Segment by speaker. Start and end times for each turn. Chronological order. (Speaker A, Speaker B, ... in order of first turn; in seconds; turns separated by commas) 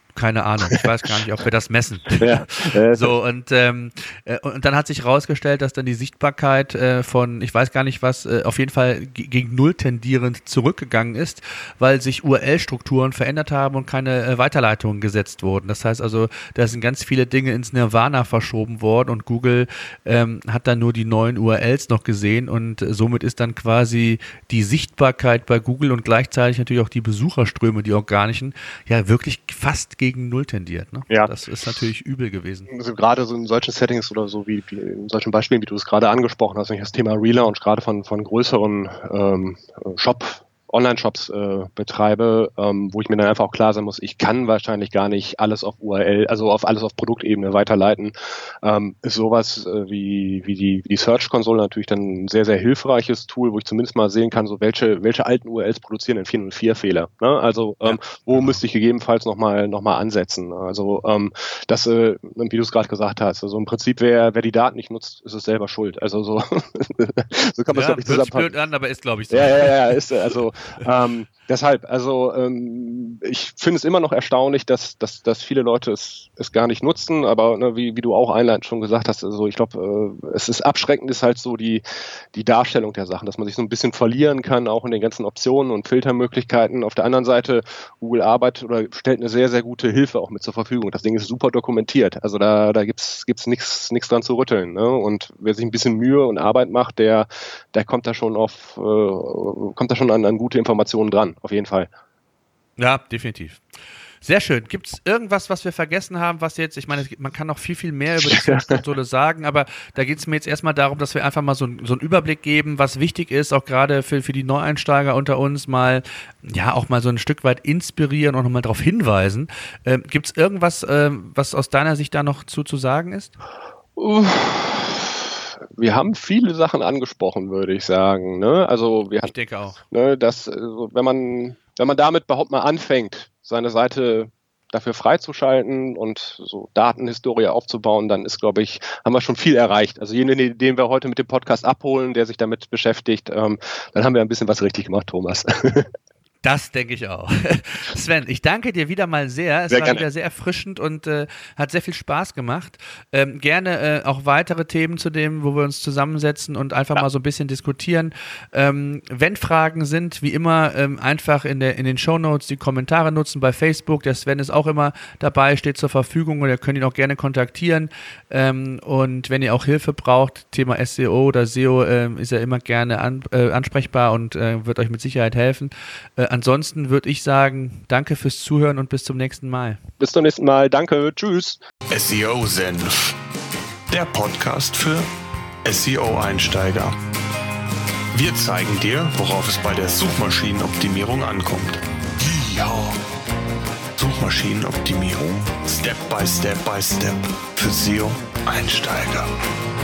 Speaker A: 0.1-32.7, Speaker B: 2.2-3.1, Speaker B: 32.7-68.5, Speaker A: 57.8-58.6, Speaker A: 67.7-70.1, Speaker B: 69.3-101.9, Speaker A: 102.8-103.6, Speaker A: 104.2-123.3, Speaker B: 108.2-108.8, Speaker B: 124.0-129.3, Speaker A: 129.2-129.8, Speaker B: 129.9-145.9, Speaker A: 146.4-179.8, Speaker B: 149.7-150.0, Speaker B: 180.0-181.6, Speaker C: 181.9-183.2, Speaker C: 183.9-185.1, Speaker C: 185.6-186.9, Speaker C: 188.1-193.0, Speaker C: 194.0-199.3